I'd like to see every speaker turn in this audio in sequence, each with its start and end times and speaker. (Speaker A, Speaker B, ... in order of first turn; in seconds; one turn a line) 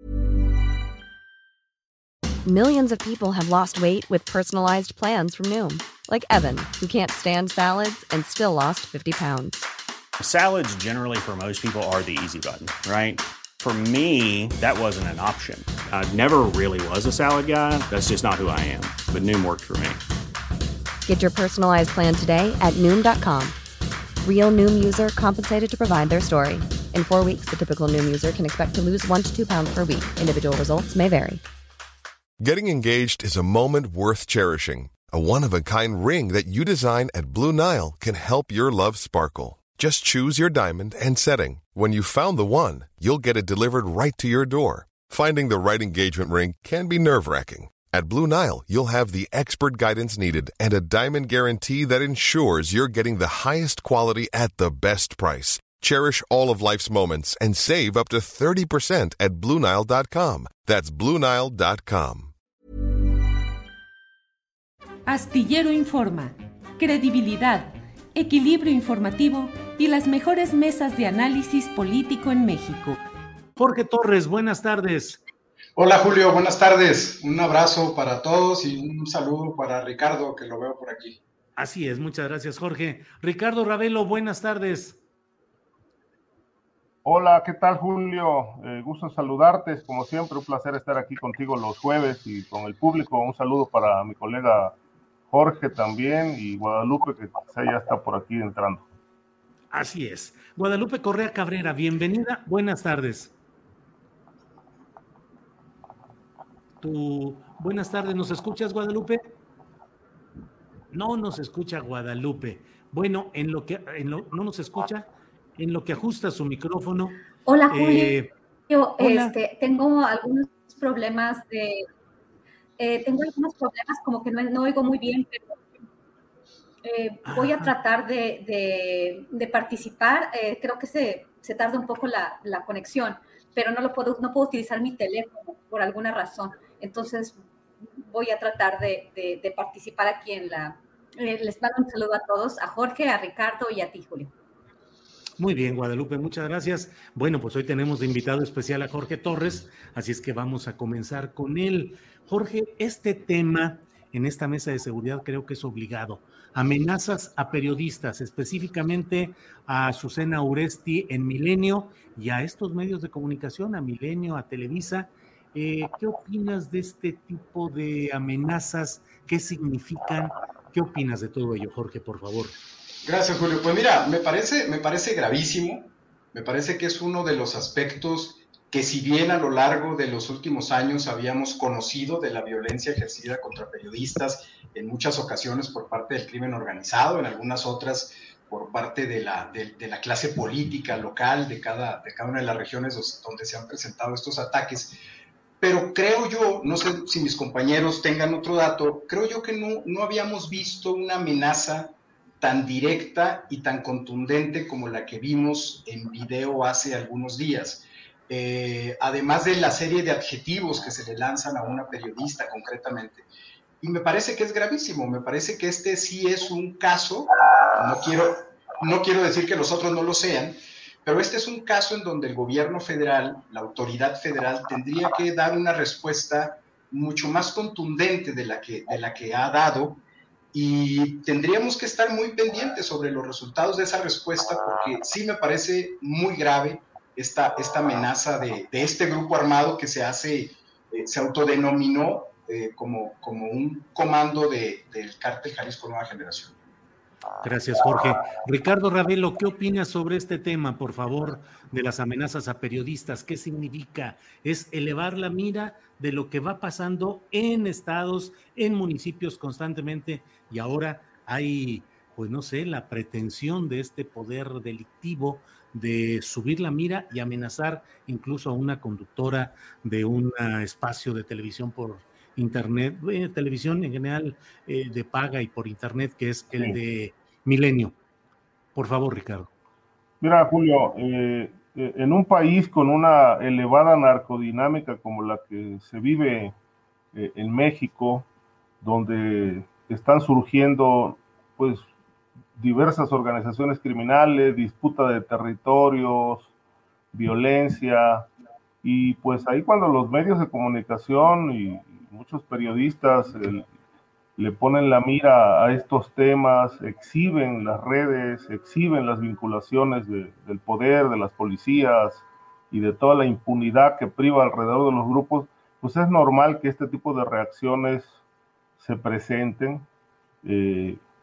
Speaker A: 2.4-9.7
Speaker B: 10.2-20.0
Speaker A: 21.0-23.5
Speaker A: 24.2-31.4
Speaker C: 32.4-62.3
Speaker D: 65.0-73.0
Speaker E: 73.5-75.2
Speaker F: 75.8-81.2
Speaker E: 81.5-85.0
Speaker G: 87.0-94.8
Speaker G: 95.3-98.9
Speaker E: 99.7-103.3
Speaker E: 106.8-109.2
Speaker E: 110.9-117.2
Speaker H: 117.5-118.2
Speaker E: 117.7-118.3
Speaker H: 118.7-121.8
Speaker E: 119.0-119.4
Speaker H: 122.8-125.5
Speaker H: 126.8-137.4
Speaker E: 127.2-127.7
Speaker H: 138.1-144.3
Speaker E: 145.4-172.6
Speaker F: 173.0-195.0
Speaker F: 195.6-213.2
Speaker F: 213.8-230.0
Speaker F: 230.5-246.5
Speaker E: 247.4-277.9
Speaker E: 278.7-279.5
Speaker G: 280.2-286.5
Speaker G: 287.1-288.3
Speaker G: 288.8-291.9
Speaker G: 292.5-296.5
Speaker G: 297.1-298.3
Speaker G: 298.8-303.7
Speaker G: 304.4-318.1
Speaker G: 318.8-319.9
Speaker G: 320.4-321.0